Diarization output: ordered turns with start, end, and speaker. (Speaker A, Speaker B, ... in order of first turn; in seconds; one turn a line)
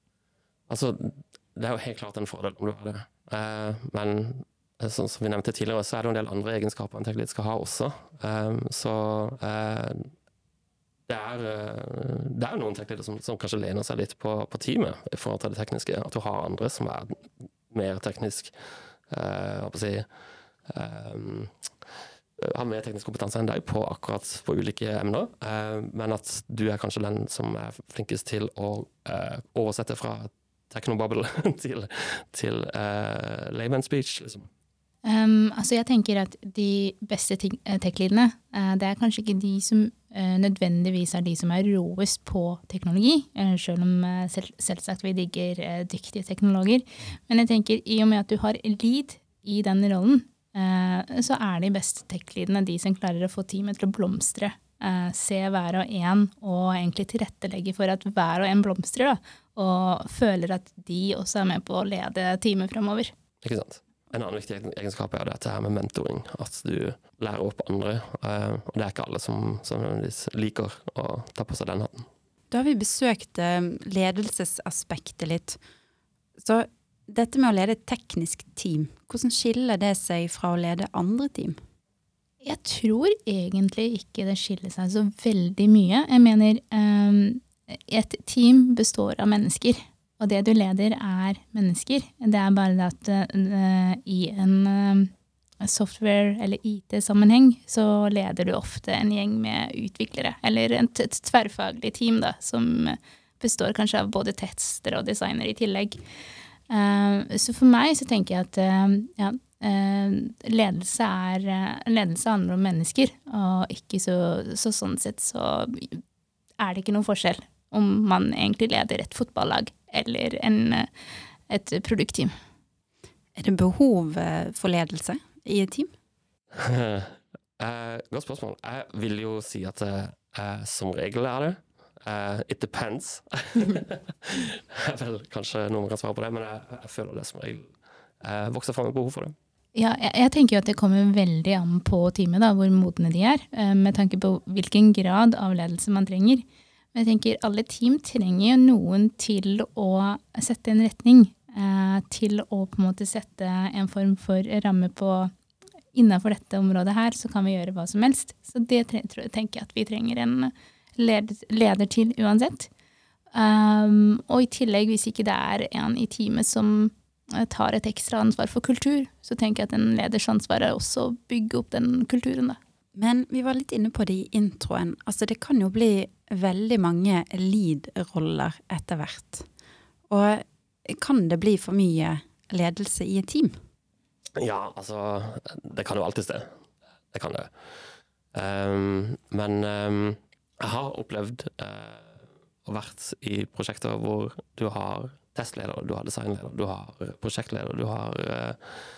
Speaker A: 0.7-10.1
Speaker A: 11.1-18.5
Speaker A: 19.1-20.1
Speaker A: 20.7-21.5
Speaker A: 22.4-34.5
Speaker B: 35.0-63.1
Speaker A: 63.4-72.1
Speaker C: 72.5-75.6
Speaker C: 76.4-81.6
Speaker B: 82.4-95.1
Speaker B: 95.6-106.0
Speaker B: 106.7-116.0
Speaker B: 116.6-120.9
Speaker B: 121.5-122.3
Speaker C: 123.4-125.9
Speaker A: 126.6-139.3
Speaker B: 139.7-146.4
Speaker B: 146.9-155.3
Speaker B: 155.9-162.7
Speaker B: 163.3-172.6
Speaker C: 172.9-179.5
Speaker C: 180.1-183.6
Speaker A: 184.4-186.5
Speaker A: 187.1-187.5
Speaker A: 188.3-198.6